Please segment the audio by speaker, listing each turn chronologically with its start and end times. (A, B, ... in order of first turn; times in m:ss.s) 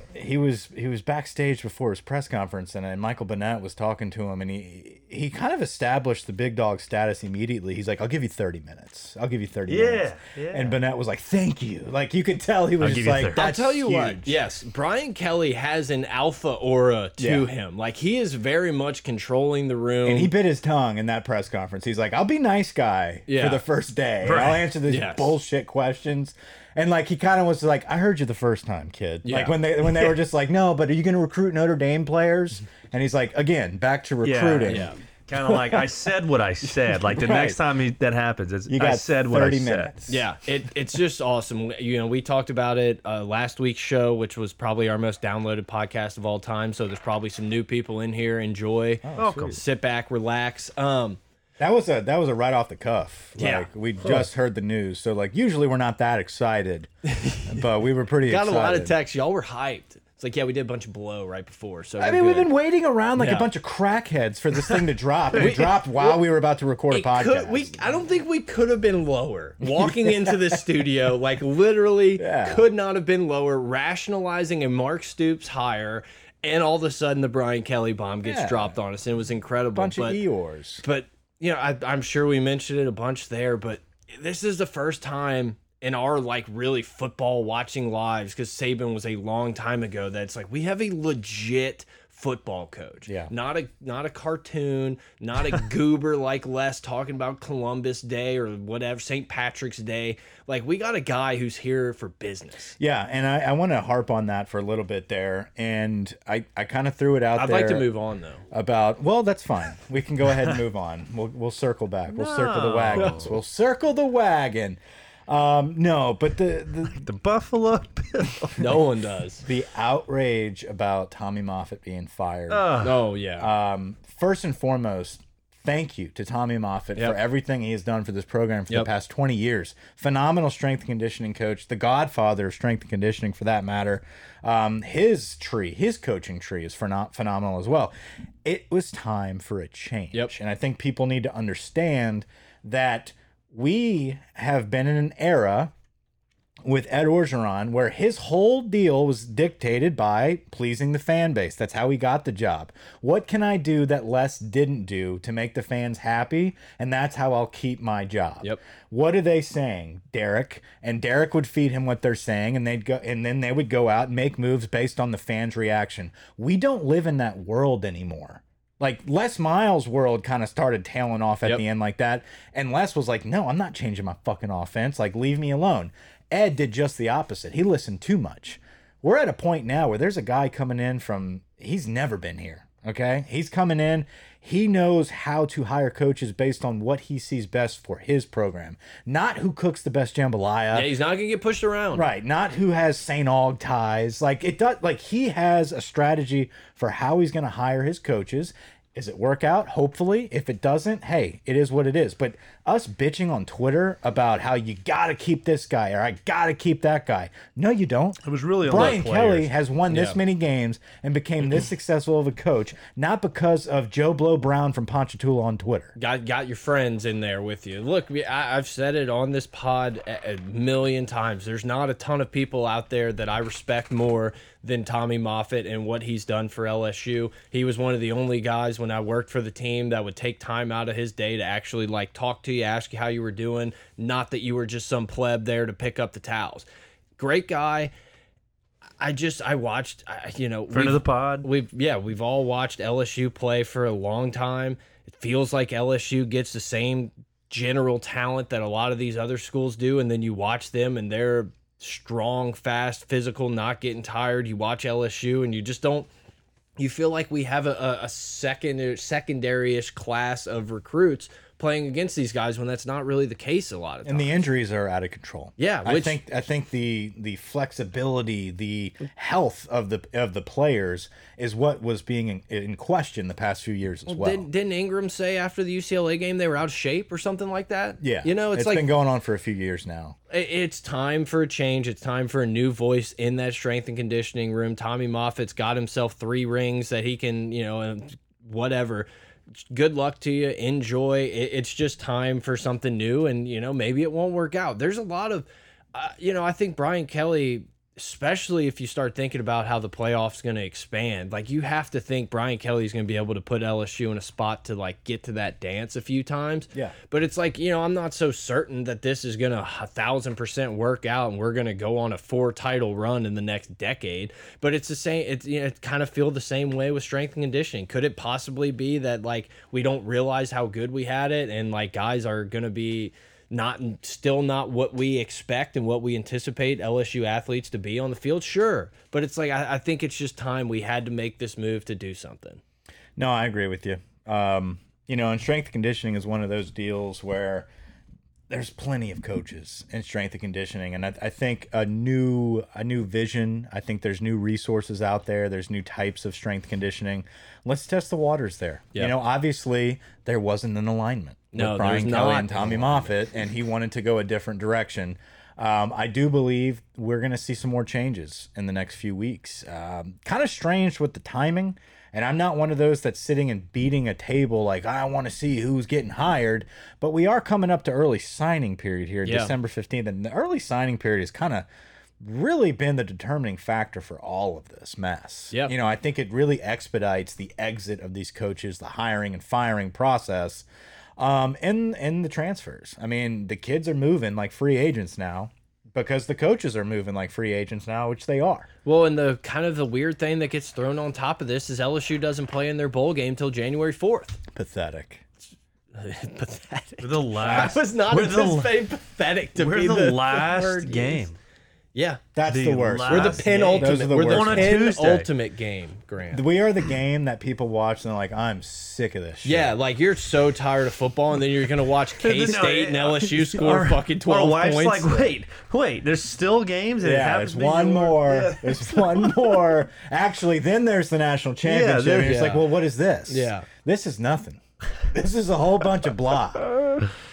0:00.1-0:14.3 A
0:09.7-0:10.8 B
0:12.8-0:13.4 B
0:13.3-0:20.3 C
0:17.2-0:17.5 A
0:20.0-0:35.9 A
0:23.3-0:23.6 C
0:24.2-0:24.7 B
0:24.8-0:25.4 C
0:29.2-0:30.1 C
0:34.2-0:39.9 B
0:34.6-0:35.0 C
0:37.1-0:37.6 A
0:38.7-0:40.2 A
0:40.1-0:51.2 C
0:49.0-0:49.6 A
0:49.2-0:49.6 B
0:51.6-0:56.9 A
0:53.4-0:53.7 C
0:57.1-0:57.5 C
0:57.4-0:58.9 A
0:58.2-1:02.5 C
1:02.0-1:07.9 A
1:03.2-1:03.5 C
1:05.3-1:06.2 C
1:06.9-1:20.2 C
1:09.6-1:10.6 A
1:12.2-1:12.6 A
1:18.2-1:18.8 A
1:19.7-1:20.8 A
1:20.8-1:42.8 C
1:33.0-1:33.3 A
1:42.8-1:47.8 A
1:47.4-1:48.4 C
1:48.5-1:57.1 A
1:52.1-1:53.3 B
1:57.0-1:58.7 B
1:58.6-1:59.4 C
1:59.4-2:02.7 A
2:02.5-2:03.0 B
2:02.8-2:03.5 C
2:03.4-2:17.9 A
2:18.4-2:25.7 A
2:26.6-3:10.9 A
3:10.7-3:12.1 C
3:11.9-3:35.9 A
3:28.2-3:29.5 B
3:29.9-3:30.2 C
3:36.0-3:56.6 C
3:57.2-3:57.9 C
3:59.0-4:16.1 C
4:00.7-4:01.5 B
4:16.8-4:24.4 C
4:24.0-4:34.4 A
4:25.6-4:26.2 C
4:34.1-4:38.9 C
4:38.0-4:40.2 A
4:40.3-4:49.1 C
4:49.6-5:32.6 C
5:33.2-5:37.7 A
5:38.5-6:11.7 A
5:51.5-5:53.2 C
6:09.2-6:09.5 C
6:12.2-6:20.6 A
6:21.2-6:28.7 A
6:28.8-6:34.4 C
6:34.5-6:35.2 A
6:35.9-6:41.3 C
6:37.0-6:38.8 B
6:39.6-6:41.4 B
6:41.9-6:42.2 C
6:42.3-6:44.8 A
6:42.5-6:45.3 B
6:43.1-6:46.4 C
6:46.3-6:49.7 A
6:49.4-6:55.3 C
6:52.2-6:59.5 B
6:57.0-7:06.7 A
7:01.6-7:02.5 B
7:02.2-7:02.7 C
7:03.3-7:03.7 C